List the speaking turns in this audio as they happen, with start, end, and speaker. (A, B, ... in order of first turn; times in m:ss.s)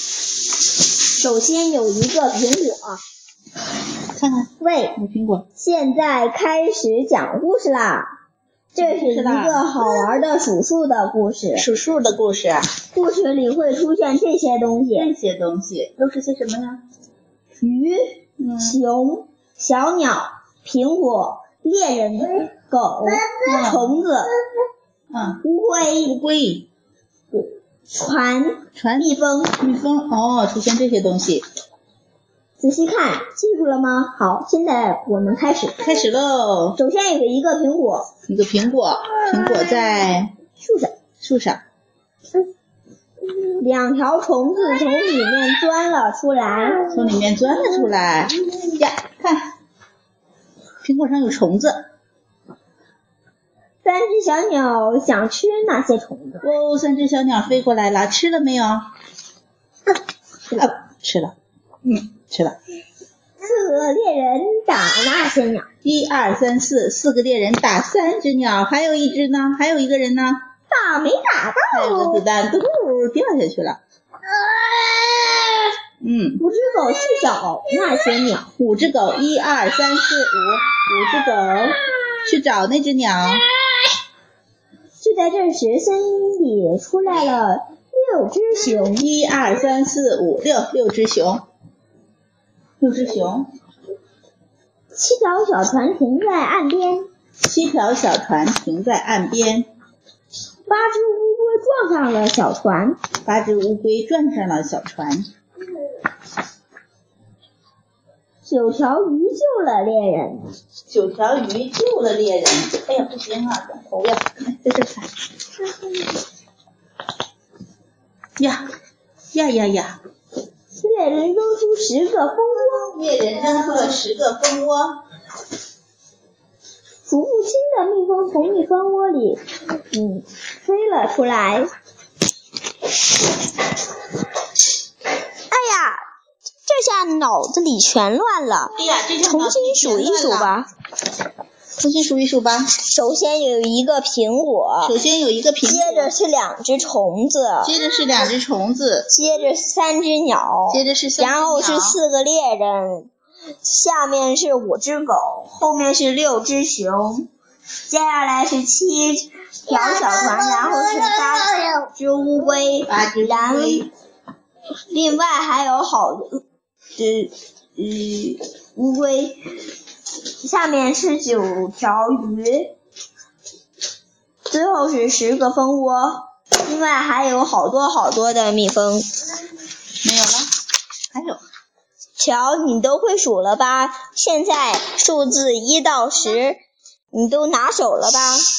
0:01.2-0:03.0 A
0:04.2-0:05.4 B
0:04.6-0:05.0 A
0:05.6-0:08.1 A
0:08.8-0:11.7 A
0:08.8-0:09.9 B
0:11.6-0:12.7 B
0:12.9-0:15.1 A
0:15.0-0:16.8 B
0:17.6-0:24.4 A
0:18.4-0:18.8 B
0:23.4-0:24.0 B
0:25.1-0:25.4 B
0:25.4-0:26.2 A
0:26.1-0:26.7 B
0:27.3-0:29.6 A
0:28.8-0:31.4 B
0:32.6-0:35.8 A
0:35.8-0:36.8 B
0:36.8-0:38.1 A
0:38.3-0:40.3 B
0:40.6-0:40.9 A
0:41.2-0:41.6 B
0:43.6-0:46.9 A
0:46.9-0:49.5 B
0:50.8-0:51.8 B
0:53.8-0:56.5 A
0:56.4-0:58.8 B
1:00.5-1:02.6 B
1:03.4-1:05.7 A
1:05.8-1:10.4 B
1:10.7-1:12.2 A
1:11.7-1:13.8 B
1:16.0-1:16.4 B
1:16.4-1:18.5 A
1:18.6-1:23.5 B
1:25.0-1:29.1 A
1:28.9-1:31.4 B
1:32.8-1:33.5 B
1:35.0-1:37.1 A
1:37.4-1:39.7 B
1:40.7-1:43.0 A
1:43.3-1:45.3 B
1:48.4-1:50.5 A
1:50.9-1:55.1 B
1:59.3-2:00.0 B
2:00.8-2:03.0 A
2:02.7-2:05.0 B
2:07.1-2:11.7 A
2:15.5-2:16.0 A
2:16.7-2:20.7 A
2:18.8-2:20.6 B
2:21.8-2:22.7 B
2:22.8-2:25.0 A
2:24.8-2:26.1 B
2:25.6-2:27.7 A
2:27.6-2:29.1 B
2:29.1-2:33.1 A
2:30.7-2:32.0 B
2:33.6-2:37.3 A
2:37.9-2:43.9 A
2:42.9-2:43.9 B
2:44.9-2:46.4 A
2:47.0-2:49.4 A
2:50.4-2:52.8 A
2:54.5-2:59.1 A
3:00.0-3:00.5 B
3:01.1-3:01.4 B
3:02.2-3:06.6 A
3:07.1-3:08.5 A